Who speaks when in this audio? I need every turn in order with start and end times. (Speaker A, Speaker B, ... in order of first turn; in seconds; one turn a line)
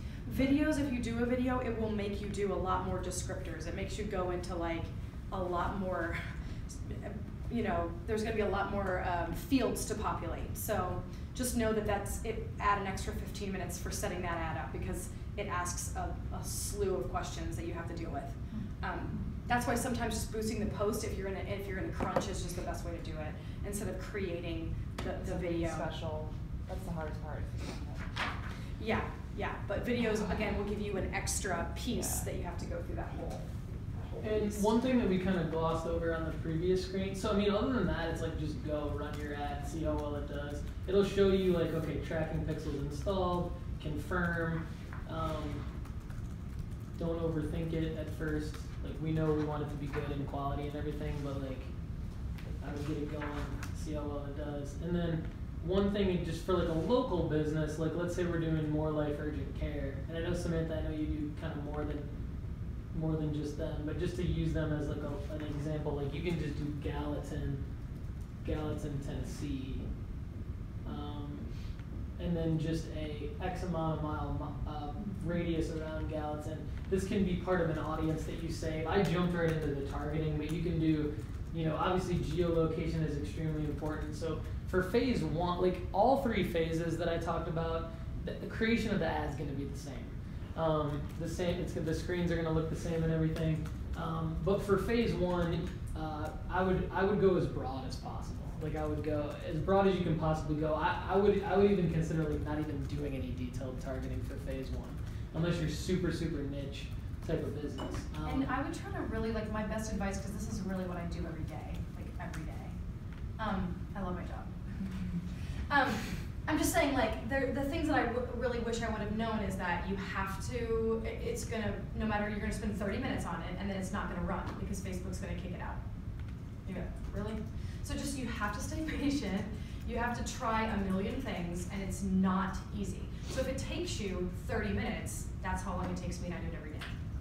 Speaker A: 0.2-25.9
Speaker B: 0.3-0.6
Speaker C: 25.2-28.1
Speaker A: 28.8-34.6
Speaker C: 31.9-32.3
Speaker B: 34.2-45.6
Speaker B: 47.0-51.7
Speaker B: 52.6-62.1
Speaker B: 62.9-67.6
Speaker B: 68.4-69.9
Speaker B: 70.8-71.6
Speaker B: 72.2-108.5
Speaker A: 108.2-112.8
Speaker A: 113.4-125.8
Speaker A: 126.6-136.9